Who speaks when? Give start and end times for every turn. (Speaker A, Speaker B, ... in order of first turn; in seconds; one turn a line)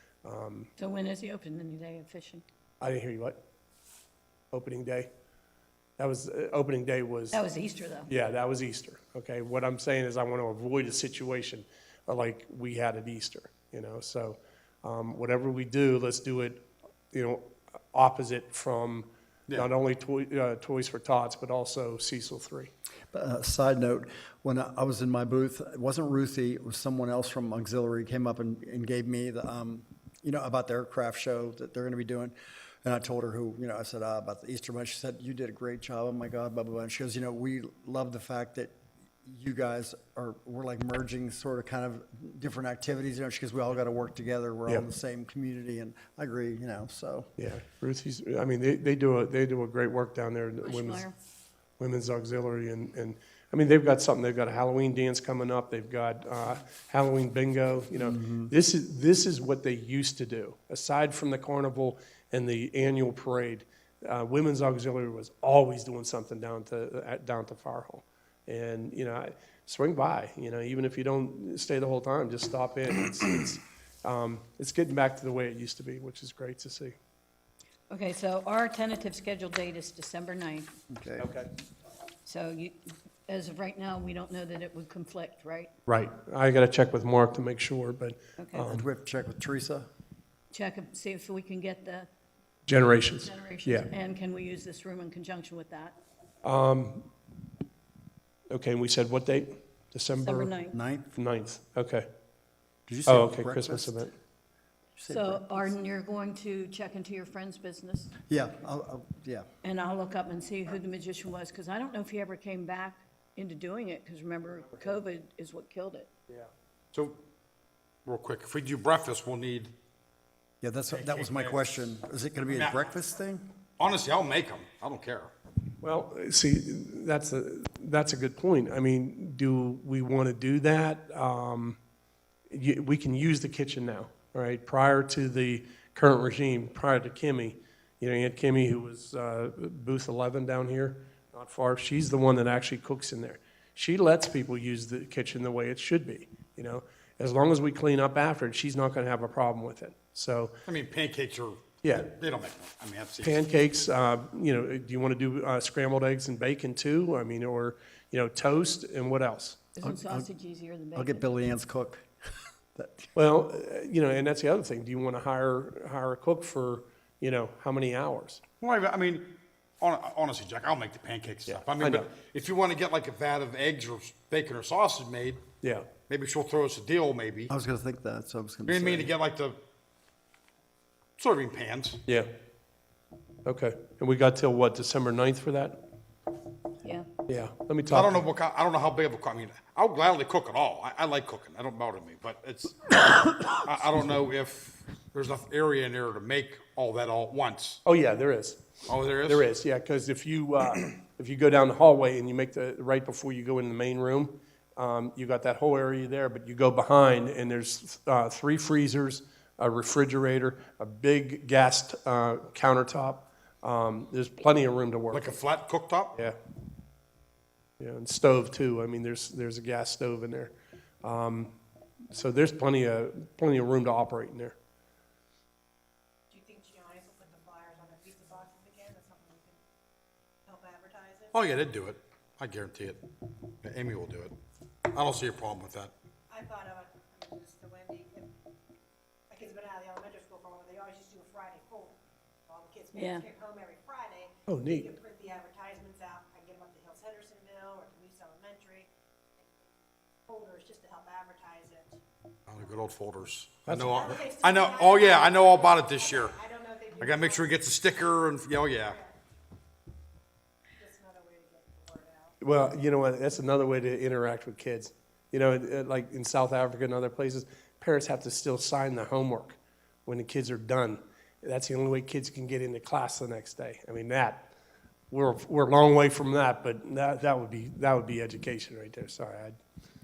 Speaker A: 0.2-0.7
Speaker B: 0.8-2.4
Speaker A: 2.8-3.4
Speaker A: 4.5-5.1
Speaker A: 6.0-7.4
Speaker B: 7.3-8.1
Speaker A: 8.1-22.7
Speaker C: 23.1-47.3
Speaker A: 47.4-51.0
Speaker B: 50.6-51.1
Speaker A: 51.8-77.0
Speaker C: 58.0-58.5
Speaker B: 77.9-80.7
Speaker C: 80.9-81.3
Speaker A: 81.2-81.5
Speaker B: 82.2-85.7
Speaker A: 85.9-88.8
Speaker B: 88.4-88.7
Speaker C: 88.6-89.9
Speaker B: 90.5-92.1
Speaker A: 92.7-93.9
Speaker B: 93.2-96.0
Speaker A: 96.4-97.1
Speaker A: 98.5-100.5
Speaker B: 100.2-100.8
Speaker C: 100.7-101.1
Speaker A: 101.2-102.1
Speaker C: 102.9-104.1
Speaker A: 103.1-104.1
Speaker C: 105.0-105.7
Speaker B: 105.1-108.1
Speaker C: 108.3-109.5
Speaker B: 109.6-116.1
Speaker D: 116.9-117.2
Speaker D: 118.1-119.7
Speaker C: 120.6-123.5
Speaker D: 120.9-121.7
Speaker D: 122.5-122.9
Speaker D: 123.8-125.3
Speaker A: 125.8-131.8
Speaker A: 132.5-150.6
Speaker D: 150.7-153.4
Speaker A: 151.8-152.1
Speaker A: 153.2-159.7
Speaker B: 159.8-161.4
Speaker C: 159.8-160.3
Speaker C: 160.9-162.1
Speaker C: 162.8-163.1
Speaker A: 163.2-168.4
Speaker D: 168.6-175.4
Speaker A: 171.5-172.1
Speaker A: 175.6-175.9
Speaker D: 176.1-177.5
Speaker C: 177.5-179.1
Speaker D: 178.7-179.6
Speaker D: 181.2-182.0
Speaker A: 183.4-185.8
Speaker A: 187.3-188.3
Speaker D: 187.9-197.8
Speaker A: 197.8-198.6
Speaker D: 198.9-199.5
Speaker A: 199.2-215.4
Speaker D: 215.1-216.1
Speaker A: 217.8-221.6
Speaker A: 222.1-224.6
Speaker E: 226.3-229.6
Speaker E: 230.5-231.4
Speaker D: 231.3-233.0
Speaker D: 233.6-234.3
Speaker D: 234.9-235.9
Speaker E: 236.3-238.3
Speaker E: 239.3-252.0
Speaker B: 242.9-243.2
Speaker A: 244.5-244.9
Speaker D: 252.5-256.3
Speaker E: 253.9-257.6
Speaker D: 257.0-259.0
Speaker E: 258.8-259.1
Speaker E: 260.8-262.4
Speaker A: 262.4-274.5
Speaker A: 275.1-279.6